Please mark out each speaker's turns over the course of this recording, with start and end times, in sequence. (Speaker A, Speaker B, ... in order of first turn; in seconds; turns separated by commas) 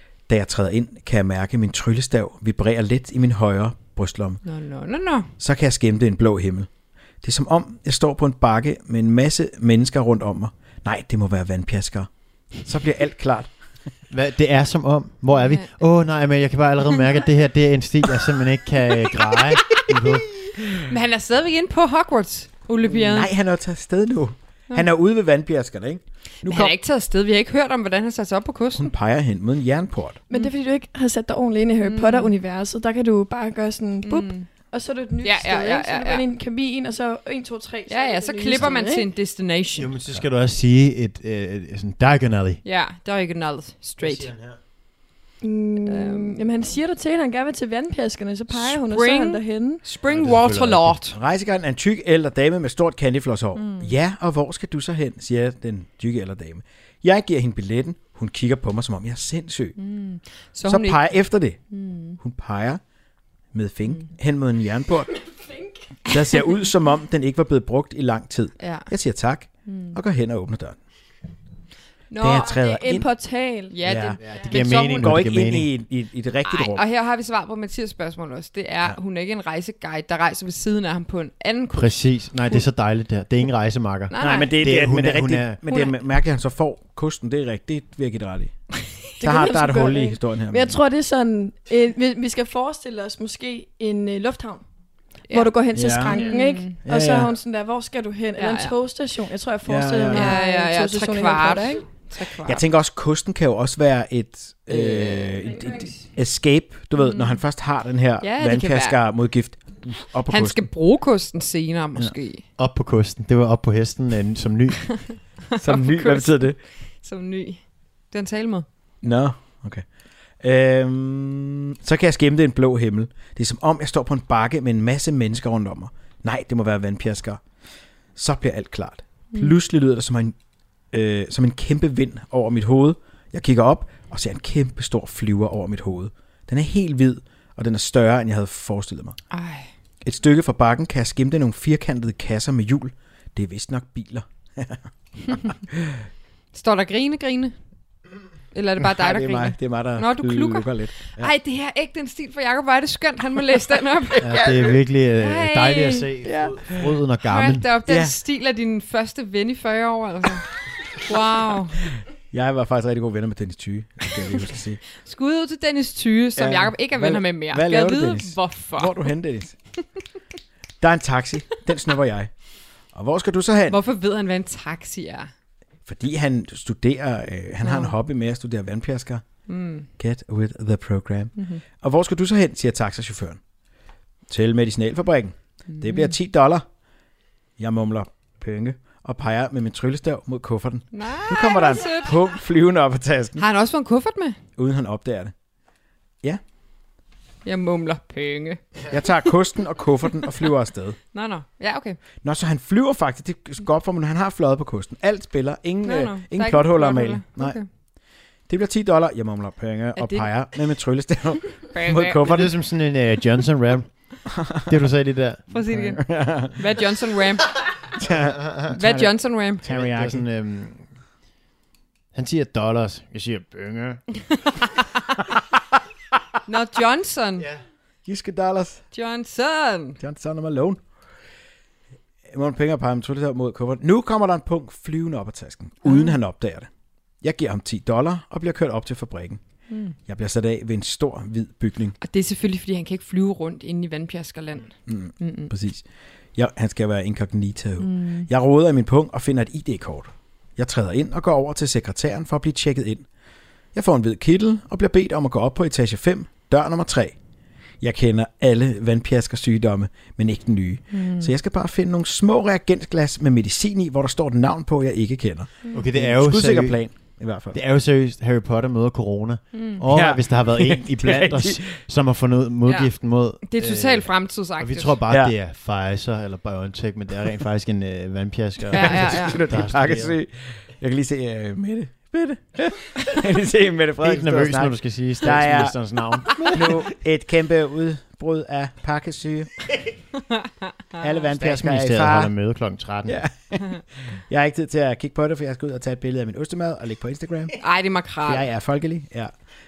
Speaker A: 0.3-4.4, Speaker B: 4.4-5.3, Speaker A: 5.4-6.7, Speaker A: 7.2-12.1, Speaker A: 12.6-13.5, Speaker C: 14.1-20.3, Speaker B: 15.3-15.7, Speaker B: 20.8-23.3, Speaker A: 22.9-26.7, Speaker B: 26.4-28.9, Speaker A: 28.7-30.2, Speaker D: 30.3-39.1, Speaker B: 31.8-32.3, Speaker B: 34.0-34.5, Speaker B: 35.2-36.2, Speaker B: 37.9-39.9, Speaker C: 39.8-42.6, Speaker B: 42.6-44.3, Speaker C: 44.0-44.6, Speaker D: 45.4-49.8, Speaker B: 45.9-46.4, Speaker B: 48.5-51.1, Speaker C: 50.1-51.0, Speaker A: 51.1-59.8, Speaker B: 53.6-53.9, Speaker B: 59.8-61.0, Speaker A: 60.6-61.6, Speaker B: 61.7-62.2, Speaker A: 62.2-62.8, Speaker A: 63.5-65.1, Speaker A: 66.1-70.8, Speaker B: 68.6-68.9, Speaker B: 69.7-70.0, Speaker B: 72.1-72.6, Speaker A: 72.2-73.1, Speaker D: 72.4-73.7, Speaker B: 73.7-75.2, Speaker A: 73.8-76.8, Speaker C: 74.2-75.7, Speaker B: 76.5-82.6, Speaker C: 81.7-85.6, Speaker B: 84.1-84.5, Speaker A: 84.2-88.5, Speaker B: 85.7-85.9, Speaker A: 89.2-90.8, Speaker D: 89.2-94.6, Speaker D: 95.3-101.8, Speaker A: 95.7-96.3, Speaker B: 96.0-96.8, Speaker A: 96.8-97.3, Speaker B: 98.4-98.7, Speaker A: 99.7-100.4, Speaker B: 100.1-102.6, Speaker A: 102.4-110.7, Speaker B: 107.0-107.4, Speaker B: 108.2-109.0, Speaker B: 110.3-112.4, Speaker C: 112.6-115.1, Speaker B: 115.5-118.7, Speaker A: 115.6-116.6, Speaker A: 119.0-119.8, Speaker A: 120.4-127.4, Speaker A: 128.2-130.3, Speaker A: 130.9-139.2, Speaker B: 139.3-139.7, Speaker A: 140.0-146.0, Speaker B: 146.5-147.6, Speaker B: 148.5-154.4, Speaker A: 148.8-151.3, Speaker A: 154.2-154.7, Speaker C: 154.2-157.7, Speaker B: 155.2-156.1, Speaker A: 156.2-156.9, Speaker B: 157.2-161.8, Speaker A: 157.9-158.2, Speaker A: 162.3-164.8, Speaker B: 165.0-169.1, Speaker A: 166.4-169.6, Speaker A: 170.8-172.3, Speaker A: 172.9-173.8, Speaker B: 173.7-175.3, Speaker A: 175.9-179.2, Speaker B: 177.6-177.9, Speaker B: 179.5-179.9, Speaker A: 180.0-183.4, Speaker B: 181.4-181.6, Speaker A: 184.3-186.7, Speaker B: 185.7-186.1, Speaker A: 187.6-193.4, Speaker B: 190.9-192.2, Speaker B: 193.4-194.4, Speaker A: 194.6-195.3, Speaker B: 197.4-198.6, Speaker A: 198.9-201.0, Speaker B: 201.1-202.0, Speaker A: 202.2-207.6, Speaker B: 205.8-207.7, Speaker A: 208.5-212.5, Speaker B: 210.0-210.3, Speaker B: 211.7-212.5, Speaker C: 212.3-216.0, Speaker A: 214.3-214.8, Speaker B: 215.5-217.7, Speaker A: 216.0-216.6, Speaker A: 218.0-220.2, Speaker C: 218.4-218.7, Speaker B: 218.7-219.6, Speaker C: 219.6-220.8, Speaker C: 222.1-224.1, Speaker B: 226.4-227.5, Speaker A: 228.1-228.8, Speaker B: 228.9-230.0, Speaker A: 230.0-230.8, Speaker A: 232.3-236.7, Speaker B: 235.8-236.2, Speaker A: 237.2-239.4, Speaker B: 239.7-239.9, Speaker A: 240.1-241.9, Speaker B: 242.0-245.5, Speaker A: 244.9-245.8, Speaker A: 246.3-253.1, Speaker B: 247.8-248.3, Speaker A: 253.7-257.2, Speaker A: 257.8-267.6, Speaker B: 260.9-261.3, Speaker C: 265.7-266.8, Speaker C: 267.5-280.2, Speaker B: 269.5-269.8, Speaker A: 269.9-271.7, Speaker B: 272.7-272.9, Speaker B: 273.4-275.0, Speaker A: 275.1-275.3, Speaker B: 278.7-279.4, Speaker A: 278.7-285.8, Speaker C: 284.0-286.9, Speaker A: 286.3-289.5, Speaker A: 291.0-292.3, Speaker C: 291.3-293.2, Speaker A: 293.1-297.6, Speaker B: 297.6-298.5, Speaker A: 298.2-299.3